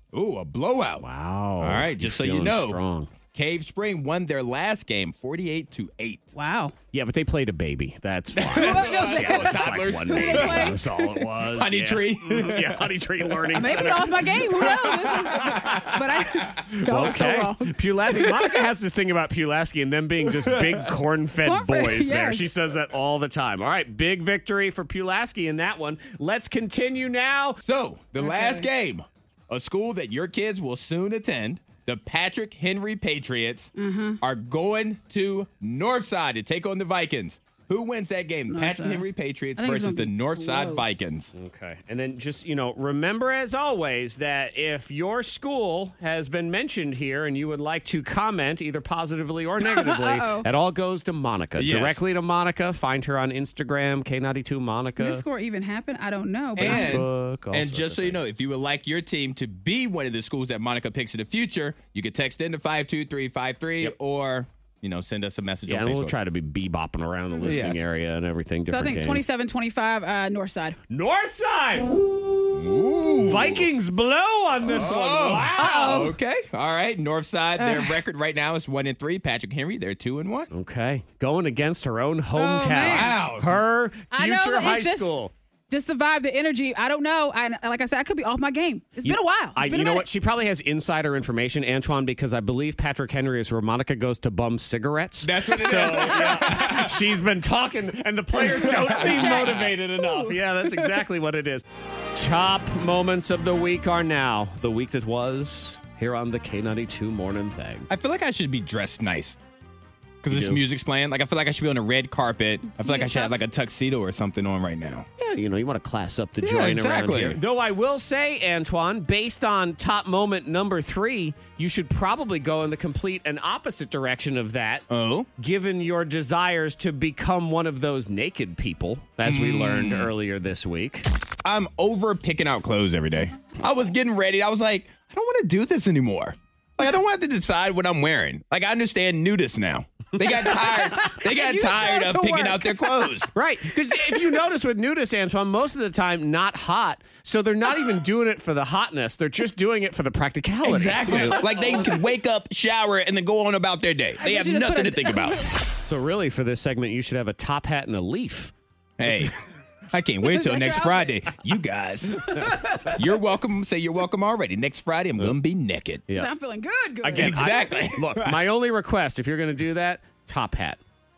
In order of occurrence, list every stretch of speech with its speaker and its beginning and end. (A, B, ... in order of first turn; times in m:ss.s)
0:00.1-0:01.0 A
0:01.0-0:03.1 B
0:01.6-0:02.8 A
0:03.3-0:06.2 A
0:06.4-0:06.7 C
0:06.9-0:16.0 B
0:08.4-0:10.8 A
0:08.6-0:11.0 C
0:11.5-0:13.8 A
0:13.5-0:18.6 C
0:14.6-0:17.1 A
0:16.7-0:27.6 B
0:21.4-0:22.5 C
0:27.6-0:41.3 A
0:28.2-0:28.7 C
0:33.8-0:34.2 C
0:38.5-0:39.0 C
0:39.6-0:40.9 C
0:41.3-0:55.2 B
0:49.6-0:50.5 C
0:51.6-0:52.0 A
0:55.0-0:57.0 C
0:56.6-1:06.1 A
0:56.6-0:58.2 B
1:05.7-1:09.2 B
1:07.4-1:07.8 A
1:08.7-1:10.8 C
1:10.9-1:12.0 B
1:12.5-1:13.6 A
1:13.2-1:16.1 B
1:14.6-1:20.5 A
1:15.6-1:16.1 C
1:17.6-1:18.0 C
1:20.5-1:25.3 B
1:22.4-1:23.1 C
1:22.9-1:23.6 A
1:24.1-1:25.2 C
1:25.7-1:30.0 C
1:29.0-1:47.9 B
1:35.2-1:37.0 A
1:38.6-1:39.7 A
1:38.8-1:40.9 C
1:47.9-1:49.4 A
1:50.2-1:55.1 A
1:50.3-1:50.6 B
1:52.8-1:53.4 C
1:55.2-2:04.8 B
1:56.4-1:57.4 A
2:04.9-2:05.3 A
2:05.4-2:11.1 B
2:09.2-2:10.1 A
2:11.4-2:23.3 A
2:20.5-2:23.1 C
2:23.3-2:31.9 B
2:30.6-2:35.5 A
2:34.2-2:35.5 C
2:35.8-2:38.5 B
2:39.0-2:39.4 A
2:39.9-2:46.0 A
2:40.2-2:41.2 C
2:42.3-2:42.9 C
2:46.1-2:47.5 C
2:47.0-2:50.8 B
2:47.2-2:48.4 A